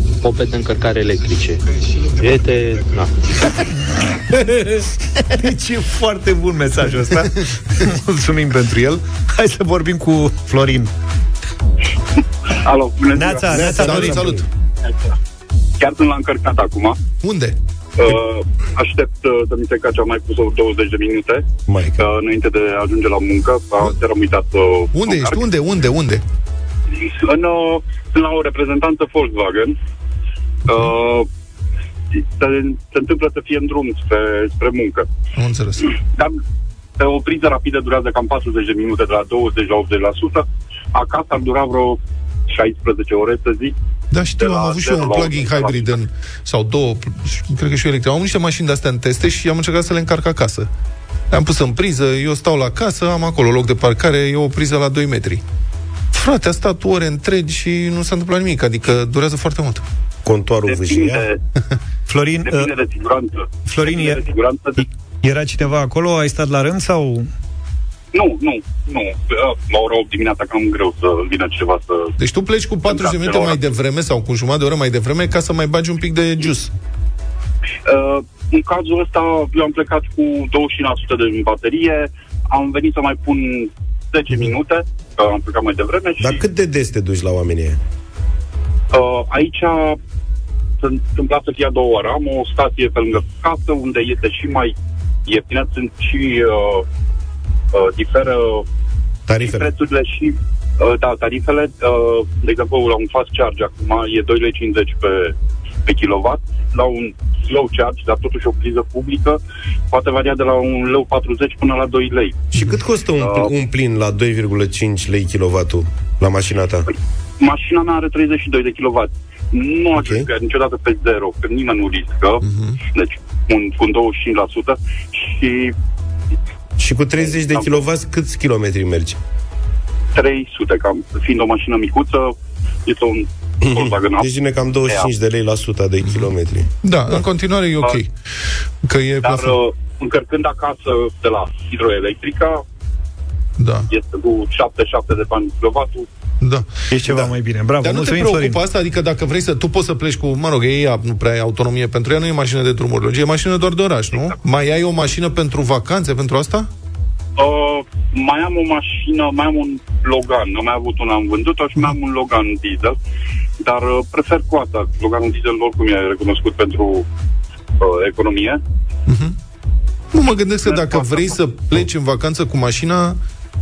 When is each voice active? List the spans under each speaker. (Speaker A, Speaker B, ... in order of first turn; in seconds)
Speaker A: 0.2-1.6, 2.2-3.1
Speaker B: 5.3-10.9, 13.1-14.4, 62.1-62.7, 63.7-64.2, 64.8-67.3, 146.9-148.6
Speaker C: 12.6-13.7, 15.8-17.0, 18.0-21.4, 22.0-25.4, 26.9-29.8, 30.7-31.3, 32.1-35.1, 37.0-43.7, 44.4-46.0, 60.6-61.4, 62.4-64.8, 68.1-72.1, 72.9-73.6, 77.9-86.4, 88.9-90.0, 90.8-94.7, 95.2-96.8, 97.7-98.7, 99.4-105.3, 105.8-109.4, 109.9-112.4, 113.2-113.5, 117.4-122.4, 122.9-125.7, 127.5-127.8, 130.1-132.3, 132.8-134.3, 139.2-142.6, 143.9-146.1, 157.4-162.9, 163.6-167.1, 167.8-168.6, 170.7-171.3
Speaker D: 13.5-14.4, 21.7-22.0, 60.2-61.2, 86.2-87.8, 99.3-99.7, 112.5-116.9, 119.9-120.3, 126.8-129.2, 133.6-136.7
Speaker E: 13.6-14.4, 17.2-17.6, 24.9-26.2, 35.3-35.9, 44.1-50.7, 51.3-55.4, 56.1-59.8, 72.2-76.7, 122.4-122.8, 136.8-138.1, 138.8-139.6, 143.6-143.9, 146.4-146.7, 147.8-156.7, 169.1-169.4, 170.1-173.2